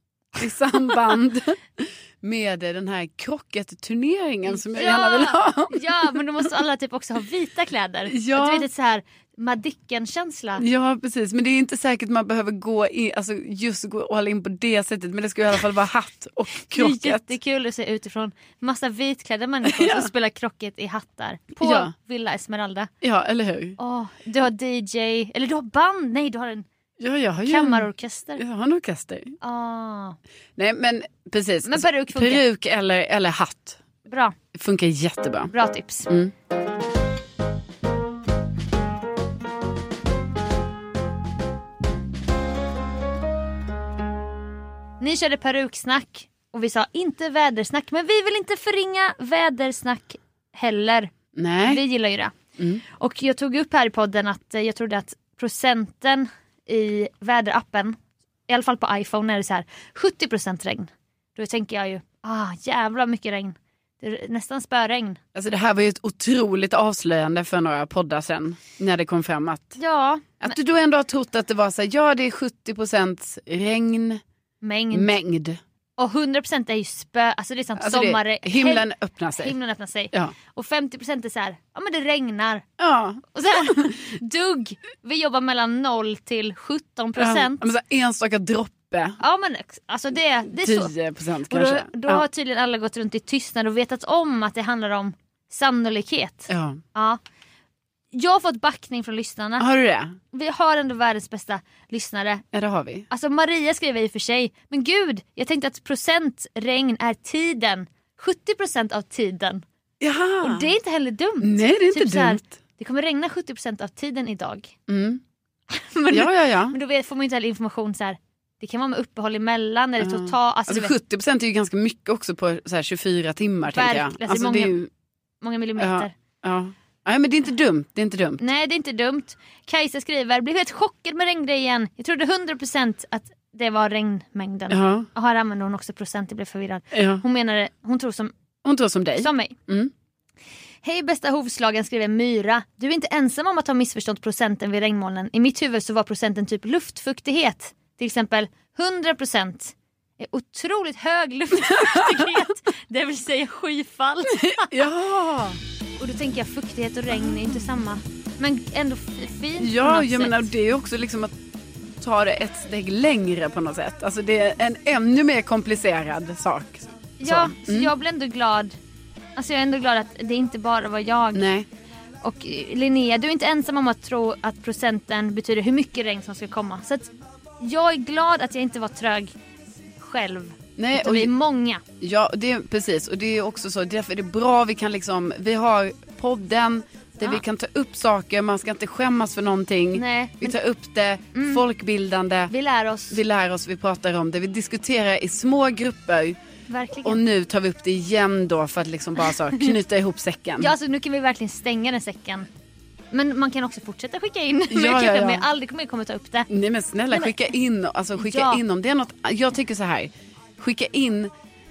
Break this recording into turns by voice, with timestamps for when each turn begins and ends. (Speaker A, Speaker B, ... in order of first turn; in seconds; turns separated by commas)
Speaker A: 0.4-6.1, Speaker B: 4.5-10.6, Speaker A: 8.1-8.7, Speaker A: 10.6-17.3, Speaker B: 16.7-22.9, Speaker A: 19.6-20.1, Speaker A: 21.6-21.9, Speaker A: 23.0-23.8, Speaker B: 23.8-26.6, Speaker A: 27.0-29.4, Speaker B: 27.5-28.4, Speaker B: 29.4-30.2, Speaker A: 30.6-33.8, Speaker B: 31.6-32.4, Speaker B: 34.1-34.4, Speaker A: 34.5-35.5, Speaker B: 35.5-36.1, Speaker B: 45.0-52.4, Speaker A: 51.4-51.8, Speaker B: 52.9-58.0, Speaker B: 58.5-65.2, Speaker A: 65.3-69.8, Speaker B: 69.8-70.6, Speaker A: 70.4-74.2, Speaker B: 74.6-75.1, Speaker A: 74.9-75.6, Speaker B: 76.0-78.9, Speaker A: 77.8-79.5, Speaker B: 79.4-82.6, Speaker A: 82.8-83.3, Speaker B: 83.3-87.6, Speaker A: 87.2-89.2, Speaker B: 89.2-90.9, Speaker A: 90.5-92.2, Speaker B: 91.5-97.2, Speaker A: 96.5-96.8, Speaker B: 98.1-99.7, Speaker A: 99.6-100.1, Speaker B: 100.3-102.4, Speaker A: 102.5-103.1, Speaker B: 103.1-109.6, Speaker A: 110.0-110.7, Speaker B: 110.4-114.7, Speaker A: 111.4-112.4, Speaker A: 114.9-115.2, Speaker B: 115.7-120.9, Speaker A: 116.1-116.8, Speaker A: 120.0-124.9, Speaker B: 123.7-124.7, Speaker B: 125.4-126.1, Speaker A: 125.8-128.4, Speaker B: 128.4-138.3, Speaker A: 134.7-135.1, Speaker A: 136.9-137.2, Speaker A: 138.6-139.9, Speaker B: 139.2-139.6, Speaker B: 140.8-154.7, Speaker A: 154.4-155.6, Speaker B: 156.0-160.5, Speaker A: 157.3-157.6, Speaker A: 159.6-161.3, Speaker A: 162.0-167.9, Speaker B: 167.2-168.7, Speaker B: 169.4-171.4, Speaker A: 171.3-171.7, Speaker B: 172.2-177.1, Speaker B: 177.6-179.3, Speaker B: 180.0-181.8, Speaker A: 180.8-181.3, Speaker A: 182.0-192.5, Speaker B: 189.9-190.6, Speaker B: 191.3-191.6, Speaker B: 192.5-193.2, Speaker A: 193.1-196.4, Speaker B: 196.7-197.2, Speaker A: 197.0-200.7, Speaker B: 199.2-199.7, Speaker B: 200.6-202.5, Speaker B: 203.1-206.5, Speaker A: 204.7-205.4, Speaker A: 206.5-211.3, Speaker B: 208.2-208.6